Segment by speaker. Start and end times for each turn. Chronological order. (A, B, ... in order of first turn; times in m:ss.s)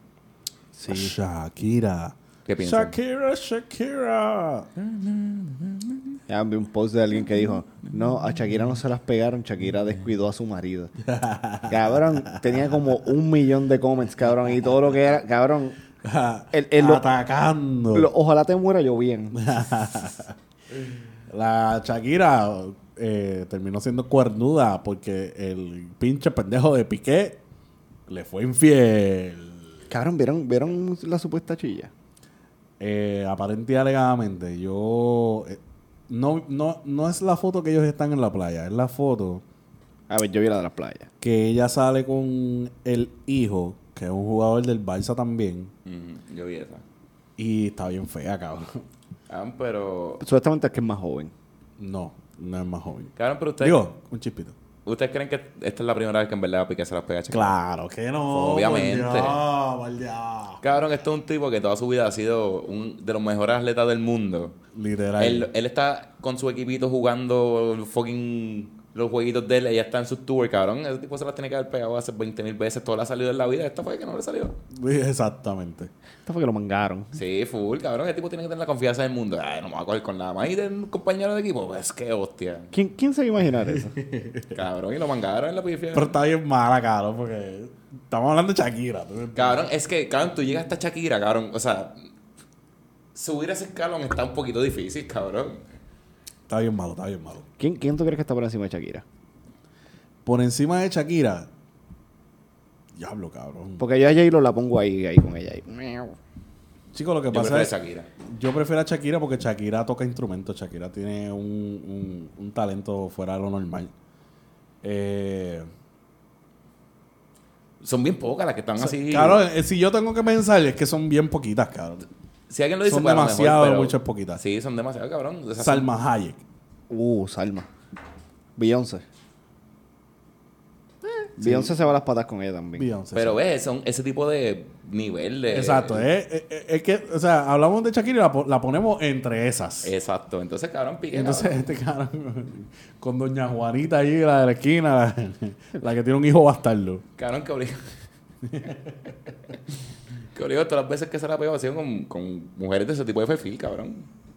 0:00.7-0:01.1 A
0:00.9-0:04.7 B
0:02.4-0:02.9 C
0:04.8-0:06.0 C
0:06.3-0:10.9 A
0:11.0-0:12.6 B
0:11.7-0:15.8 A
0:16.0-0:18.1 B
0:16.5-0:17.0 A
0:17.9-0:19.5 A
0:19.3-0:20.3 B
0:21.3-0:27.4 B
0:28.1-0:29.7 B
0:29.9-0:31.9 A
0:32.8-0:39.4 B
0:40.1-0:41.1 A
0:41.2-0:45.7 B
0:45.8-0:46.8 C
0:47.4-0:48.8 B
0:49.3-0:50.2 C
0:50.2-0:51.3 A
0:51.8-0:54.5 B
0:53.2-0:53.8 C
0:54.8-0:57.5 C
0:57.3-1:00.6 B
0:58.3-0:59.4 C
1:00.6-1:04.6 C
1:04.7-1:05.5 B
1:05.2-1:14.6 C
1:14.7-1:15.9 B
1:16.2-1:17.1 A
1:17.1-1:22.7 C
1:22.7-1:23.9 A
1:23.9-1:24.5 B
1:24.5-1:26.1 C
1:25.9-1:29.6 B
1:29.3-1:32.0 C
1:33.1-1:35.6 C
1:36.5-1:37.4 B
1:37.6-1:39.0 A
1:40.2-1:41.5 B
1:42.9-1:43.8 B
1:43.8-1:46.2 A
1:46.9-1:47.7 B
1:47.3-1:48.1 C
1:48.2-1:53.9 B
1:54.8-1:55.7 B
1:57.8-1:59.4 C
1:58.8-2:02.0 B
2:02.5-2:05.9 C
2:02.8-2:04.4 B
2:05.6-2:06.4 B
2:06.9-2:07.7 A
2:08.6-2:09.0 A
2:11.4-2:11.7 B
2:11.4-2:12.8 A
2:12.8-2:13.4 B
2:13.1-2:16.0 C
2:15.5-2:19.9 B
2:19.8-2:21.6 C
2:21.1-2:27.0 B
2:27.2-2:27.9 C
2:28.4-2:29.1 B
2:30.3-2:34.1 C